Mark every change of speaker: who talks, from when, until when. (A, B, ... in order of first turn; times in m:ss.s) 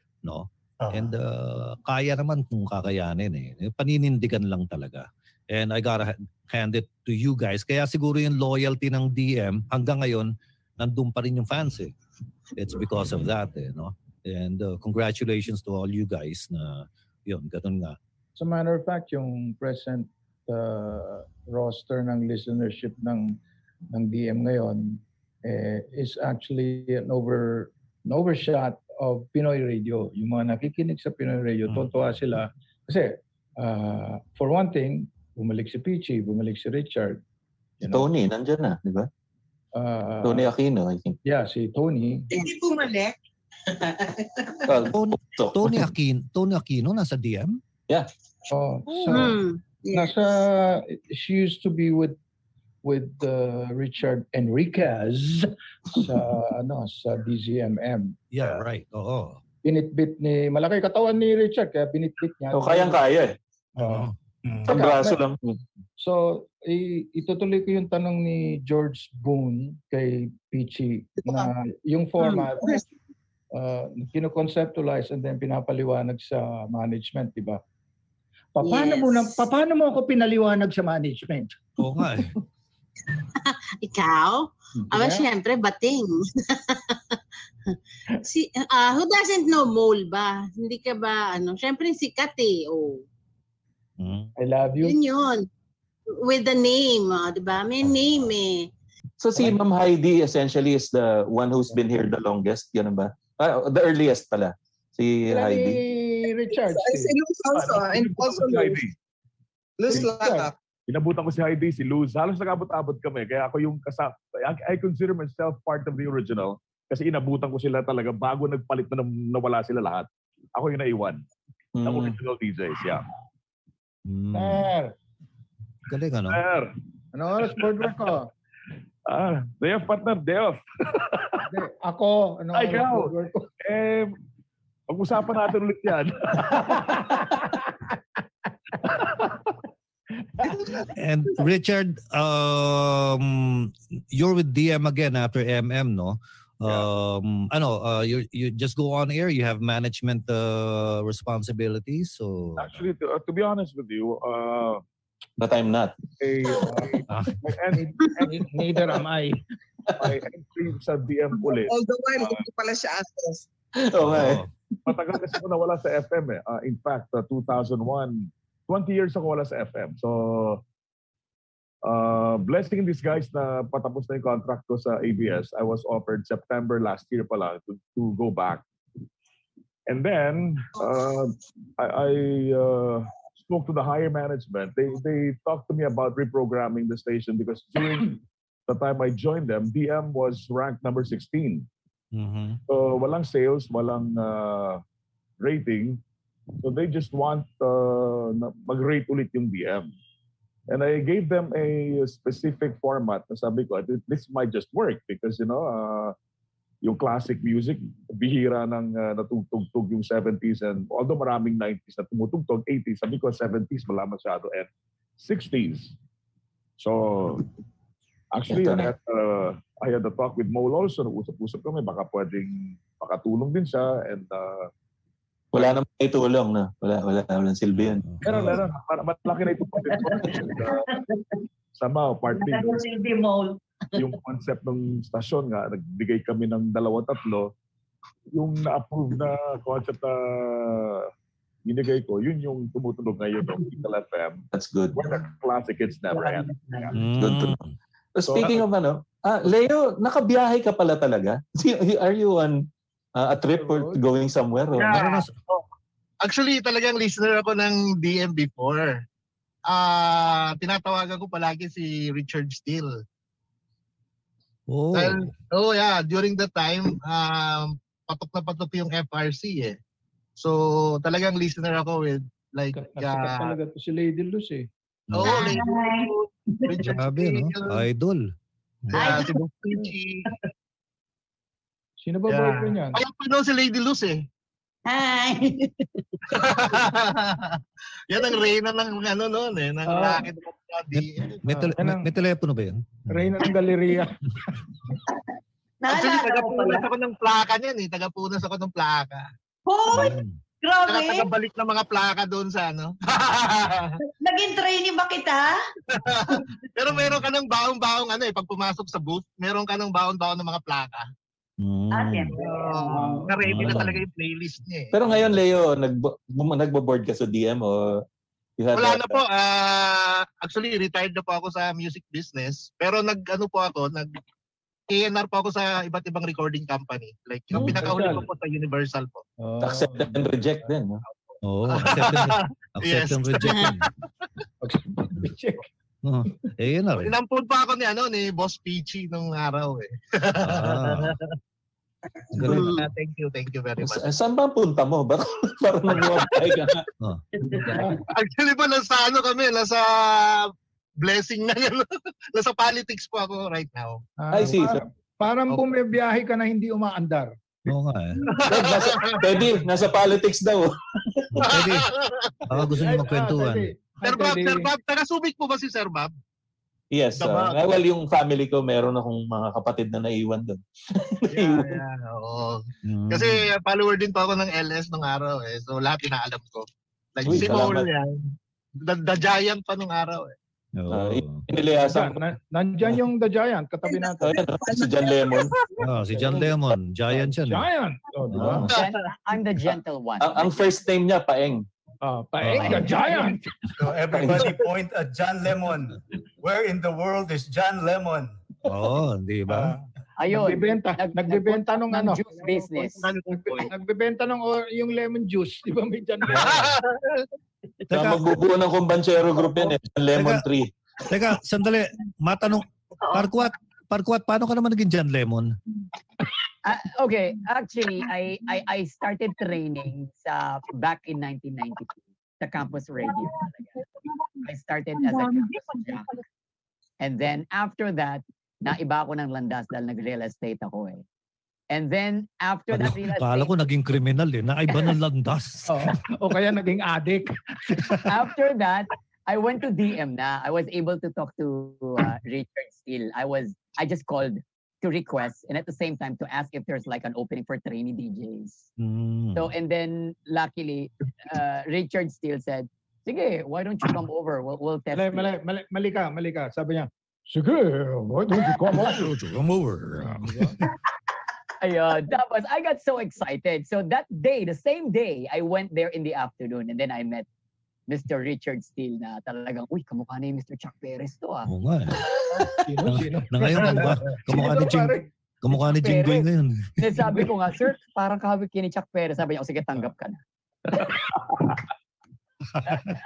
0:00.2-0:11.9 A
0:00.8-0:01.1 B
0:12.6-0:18.0 A
0:18.4-0:23.4 C
0:23.9-0:37.2 C
0:37.8-0:38.1 C
0:37.8-0:39.1 D
0:39.7-0:40.5 C
0:40.2-0:41.2 D
0:41.2-0:42.3 C
0:42.3-0:43.2 E
0:43.7-0:44.9 E
0:44.7-0:45.9 D
0:44.9-0:47.6 A
0:48.5-0:49.4 C
0:49.0-0:50.1 F
0:49.9-0:52.2 C
0:52.8-0:58.2 C
0:58.3-0:59.4 A
0:59.6-1:03.0 C
1:02.5-1:03.4 D
1:03.8-1:04.1 C
1:03.8-1:04.1 A
1:04.7-1:05.2 C
1:04.7-1:05.6 D
1:06.0-1:12.8 C
1:13.5-1:17.6 C
1:18.6-1:21.6 C
1:21.8-1:22.3 A
1:23.2-1:27.2 F
1:24.9-1:25.3 C
1:27.7-1:33.0 F
1:34.0-1:34.3 A
1:34.4-1:35.0 C
1:34.8-1:35.5 F
1:36.2-1:38.7 F
1:39.2-1:45.8 D
1:45.3-1:47.1 C
1:46.6-1:48.8 G
1:47.5-1:48.9 H
1:49.8-1:50.5 G
1:49.9-1:50.5 C
1:50.9-2:01.2 H
2:01.8-2:02.2 D
2:01.8-2:03.0 H
2:04.1-2:04.7 A
2:04.3-2:04.9 C
2:05.9-2:06.4 A
2:06.3-2:06.7 H
2:07.1-2:08.3 C
2:07.4-2:07.9 H
2:09.1-2:11.4 H
2:11.5-2:13.5 C
2:12.5-2:14.1 H
2:14.9-2:17.3 H
2:16.5-2:17.6 C
2:19.0-2:19.3 H
2:20.9-2:32.8 A
2:32.6-2:34.8 H
2:35.4-2:36.0 D
2:36.2-2:38.4 H
2:36.6-2:36.9 C
2:37.1-2:37.4 A
2:37.7-2:39.4 C
2:40.0-2:42.4 H
2:41.4-2:43.5 G
2:43.8-2:44.4 D
2:44.0-2:44.5 A
2:44.9-2:50.6 H
2:51.8-2:58.6 H
2:59.9-3:11.7 H
3:12.1-3:12.6 A
3:12.7-3:14.8 H
3:15.4-3:16.0 H
3:16.6-3:19.9 H
3:20.7-3:26.2 H
3:26.8-3:34.7 H
3:35.2-3:35.9 H
3:36.8-3:37.5 H
3:38.3-3:44.7 H
3:38.5-3:38.9 D
3:45.5-3:48.0 D
3:45.5-3:45.8 H
3:47.8-3:48.6 A
3:48.2-3:50.8 H
3:49.8-3:51.2 I
3:51.8-3:52.8 H
3:52.3-3:53.6 I
3:54.0-3:57.5 H
3:58.4-4:01.1 H
4:01.7-4:06.9 H
4:04.5-4:05.1 D
4:06.1-4:07.0 I
4:06.9-4:07.7 A
4:07.2-4:07.6 D
4:08.2-4:12.6 D
4:08.3-4:08.6 H
4:13.2-4:15.0 D
4:13.6-4:14.0 C
4:14.7-4:15.7 J
4:14.8-4:15.3 A
4:16.2-4:19.0 J
4:19.7-4:23.0 J
4:24.7-4:25.3 A
4:24.9-4:29.8 J
4:30.4-4:33.6 J
4:32.7-4:34.7 C
4:35.1-4:35.5 A
4:35.1-4:37.8 J
4:35.2-4:36.1 I
4:36.6-4:36.9 I
4:36.8-4:38.3 A
4:38.8-4:39.2 A
4:38.9-4:40.3 J
4:38.9-4:39.4 I
4:42.0-4:43.0 C
4:42.3-4:44.2 J
4:44.9-4:45.9 I
4:46.3-4:47.6 J
4:48.1-4:51.4 J
4:49.8-4:50.3 C
4:51.4-4:53.3 A
4:51.5-4:52.1 C
4:53.1-4:54.1 C
4:55.8-4:56.9 I
4:55.9-4:59.3 J
4:59.7-5:01.3 I
4:59.9-5:00.4 A
5:00.9-5:04.0 J
5:04.2-5:05.6 I
5:05.9-5:11.1 J
5:11.6-5:12.4 A
5:11.9-5:13.1 I
5:12.3-5:15.0 J
5:12.4-5:13.3 C
5:13.4-5:14.0 A
5:14.9-5:18.0 D
5:18.6-5:19.2 D
5:18.7-5:24.1 J
5:24.9-5:29.2 J
5:27.5-5:27.8 A
5:27.6-5:28.3 C
5:29.4-5:30.7 C
5:29.6-5:31.0 D
5:31.4-5:33.9 A
5:31.7-5:33.9 J
5:34.6-5:35.7 C
5:36.0-5:37.1 A
5:37.0-5:41.4 J
5:40.4-5:41.2 A
5:42.3-5:42.9 A
5:42.4-5:44.0 J
5:42.5-5:42.7 F
5:43.8-5:46.9 D
5:46.0-5:46.5 J
5:47.4-5:47.9 I
5:47.7-5:48.0 C
5:48.1-5:54.0 J
5:54.2-5:57.3 C
5:54.3-5:54.8 D
5:57.7-5:58.2 A
5:58.2-5:59.5 J
5:58.5-6:01.3 D
6:01.4-6:01.9 A
6:01.4-6:02.6 J
6:02.5-6:03.7 A
6:02.8-6:04.7 C
6:04.0-6:06.1 J
6:06.9-6:11.8 D
6:07.2-6:07.6 J
6:11.3-6:18.3 J
6:12.9-6:13.5 A
6:17.2-6:17.9 D
6:17.2-6:17.5 A
6:18.8-6:20.3 J
6:20.8-6:21.5 A
6:20.9-6:22.2 D
6:21.8-6:24.4 C
6:24.2-6:25.5 D
6:24.6-6:25.4 G
6:25.8-6:27.7 A
6:26.1-6:26.5 C
6:27.1-6:28.7 C
6:28.3-6:28.7 A
6:28.7-6:30.5 K
6:30.2-6:31.7 D
6:32.0-6:33.6 C
6:32.4-6:32.9 A
6:32.5-6:33.2 K
6:33.8-6:38.4 B
6:34.1-6:34.5 D
6:38.7-6:39.8 A
6:39.5-6:42.3 C
6:40.2-6:43.1 K
6:42.3-6:43.7 J
6:43.3-6:46.8 C
6:46.3-6:47.0 J
6:46.4-6:46.6 A
6:47.9-6:48.2 A
6:47.9-6:50.7 D
6:50.1-6:50.4 A
6:51.0-6:55.6 A
6:56.6-7:03.7 K
7:04.4-7:06.1 K
7:07.0-7:11.0 K
7:11.7-7:13.7 K
7:12.7-7:16.0 A
7:15.7-7:17.9 C
7:17.8-7:18.1 A
7:18.1-7:28.7 K
7:28.8-7:29.5 A
7:29.4-7:35.3 K
7:34.9-7:39.1 C
7:38.7-7:40.5 A
7:40.0-7:40.6 C
7:41.6-7:47.3 K
7:47.9-7:51.5 K
7:51.5-7:57.1 A
7:52.5-7:55.6 C
7:55.7-7:56.3 K
7:56.8-8:00.2 K
8:02.6-8:03.0 A